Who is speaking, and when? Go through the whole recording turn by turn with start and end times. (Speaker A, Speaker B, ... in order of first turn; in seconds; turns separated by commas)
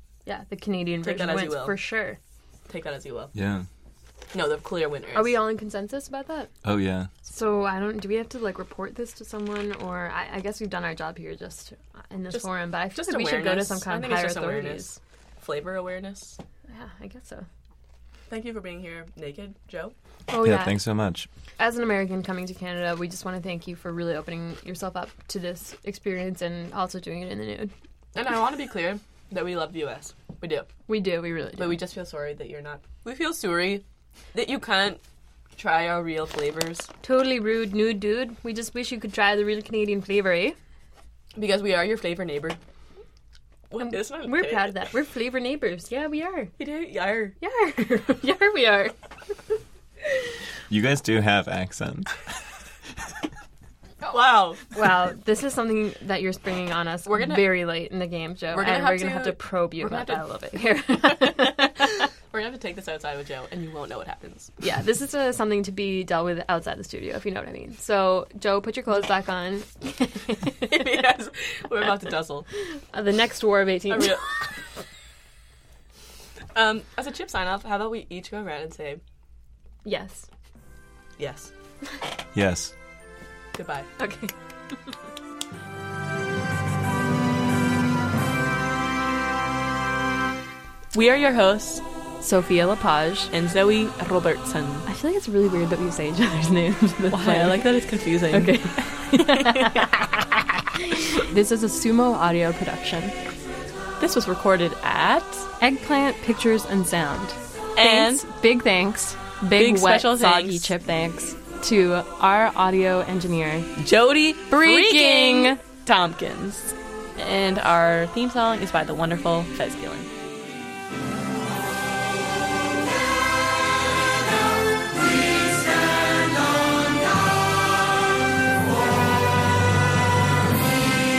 Speaker A: 0.2-2.2, Speaker B: 1.0-1.8, Speaker B: 2.7-3.3, Speaker C: 3.3-3.7, Speaker B: 4.3-5.4, Speaker A: 5.1-6.5, Speaker C: 6.6-7.1, Speaker A: 7.2-14.9, Speaker B: 12.3-16.4, Speaker A: 16.7-17.4, Speaker B: 18.3-19.9, Speaker A: 20.3-20.8, Speaker C: 20.4-21.3, Speaker A: 21.6-27.7, Speaker B: 28.1-30.7, Speaker A: 30.9-31.8, Speaker B: 31.6-35.0, Speaker B: 35.6-36.9, Speaker A: 37.0-40.6, Speaker B: 41.3-42.6, Speaker B: 43.7-44.8, Speaker A: 43.8-46.5, Speaker B: 46.6-47.4, Speaker A: 47.4-49.0, Speaker C: 50.7-52.3, Speaker B: 54.0-54.7, Speaker A: 54.7-62.1, Speaker B: 57.0-57.7, Speaker B: 58.5-60.2, Speaker B: 61.1-64.5, Speaker A: 64.6-70.8, Speaker B: 70.6-72.5, Speaker A: 72.9-74.2, Speaker B: 73.9-74.3, Speaker B: 76.5-79.0, Speaker A: 79.8-80.3, Speaker B: 81.2-81.5, Speaker C: 82.3-82.7, Speaker B: 83.5-83.9, Speaker A: 84.0-84.3, Speaker B: 90.9-91.8, Speaker A: 92.2-93.3, Speaker B: 93.3-94.9, Speaker A: 94.8-103.2, Speaker B: 97.1-99.8, Speaker B: 104.0-105.5, Speaker A: 105.6-113.7, Speaker B: 107.8-108.2, Speaker B: 109.6-110.7, Speaker B: 113.8-120.1, Speaker A: 114.5-115.6